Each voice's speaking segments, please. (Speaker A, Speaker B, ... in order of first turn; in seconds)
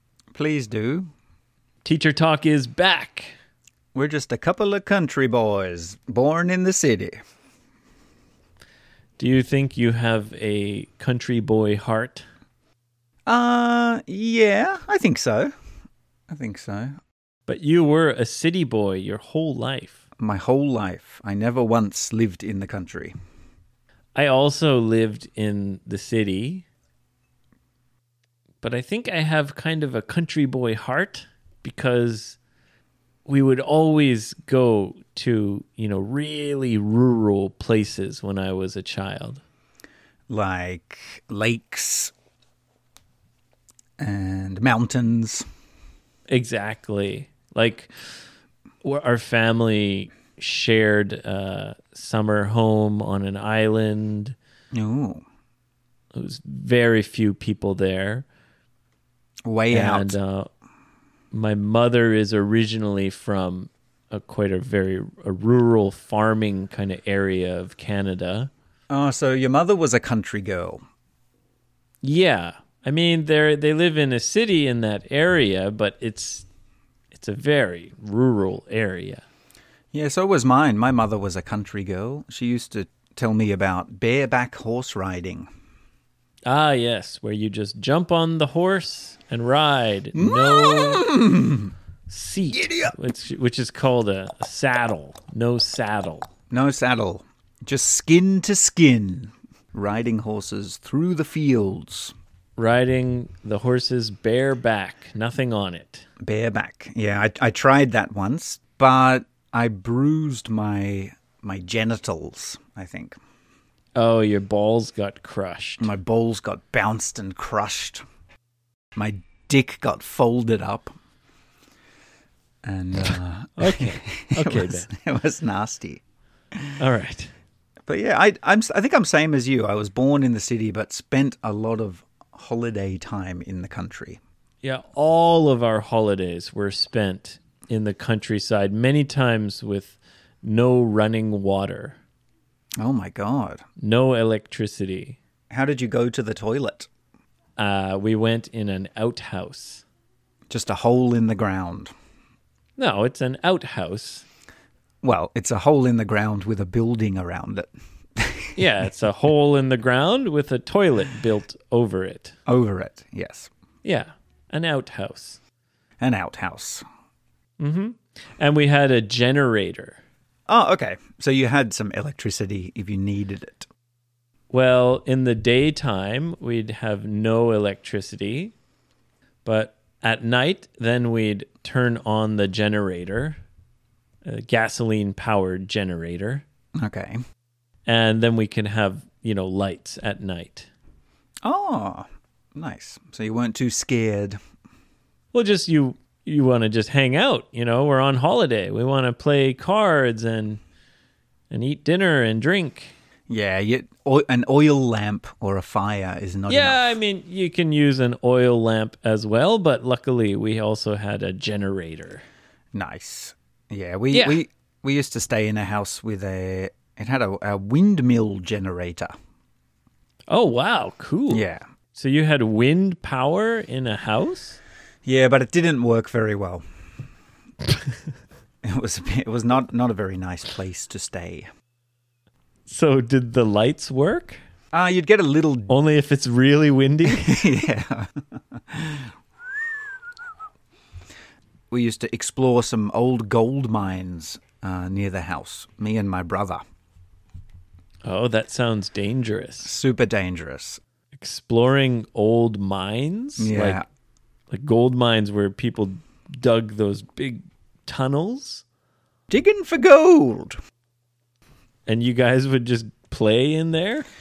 Speaker A: 0.3-1.1, 4.0-7.2, 13.3-15.5, 16.3-16.9, 20.2-23.1, 40.3-42.1, 44.0-45.5, 54.7-55.2, 59.5-60.2, 68.9-70.8, 79.9-85.5, 90.2-91.7, 92.5-92.9, 96.5-102.1, 106.2-113.2, 115.8-118.0, 119.0-120.9, 122.6-126.0, 127.9-134.2, 142.8-143.6, 145.5-146.9, 150.5-151.9, 155.0-158.6, 162.5-163.5, 166.0-166.8, 170.5-173.7, 186.8-187.2, 191.4-194.4, 203.3-207.0, 212.7-219.2, 221.3-221.6, 225.1-226.6, 228.6-231.5, 234.7-235.8, 237.1-239.1, 241.7-246.6, 249.6-250.8, 253.4-253.8, 259.3-260.6
Speaker B: 1.8-3.4, 9.2-12.2, 17.5-20.0, 24.1-26.6, 28.6-32.4, 33.3-39.4, 46.3-48.1, 48.8-54.4, 56.1-58.3, 59.7-60.5, 61.3-68.5, 72.0-76.5, 77.1-79.2, 86.5-91.0, 92.1-96.3, 102.6-106.1, 114.0-115.9, 123.6-124.9, 126.8-127.3, 134.6-142.0, 143.8-145.2, 147.6-149.8, 152.8-154.3, 158.6-162.4, 163.8-165.4, 167.6-170.0, 174.5-178.5, 179.4-183.4, 184.2-186.4, 187.9-190.7, 195.3-200.6, 201.5-202.9, 206.5-212.2, 214.1-214.4, 220.3-224.6, 232.7-234.4, 235.7-237.5, 248.0-249.7, 251.1-253.8, 254.5-258.6, 261.9-264.1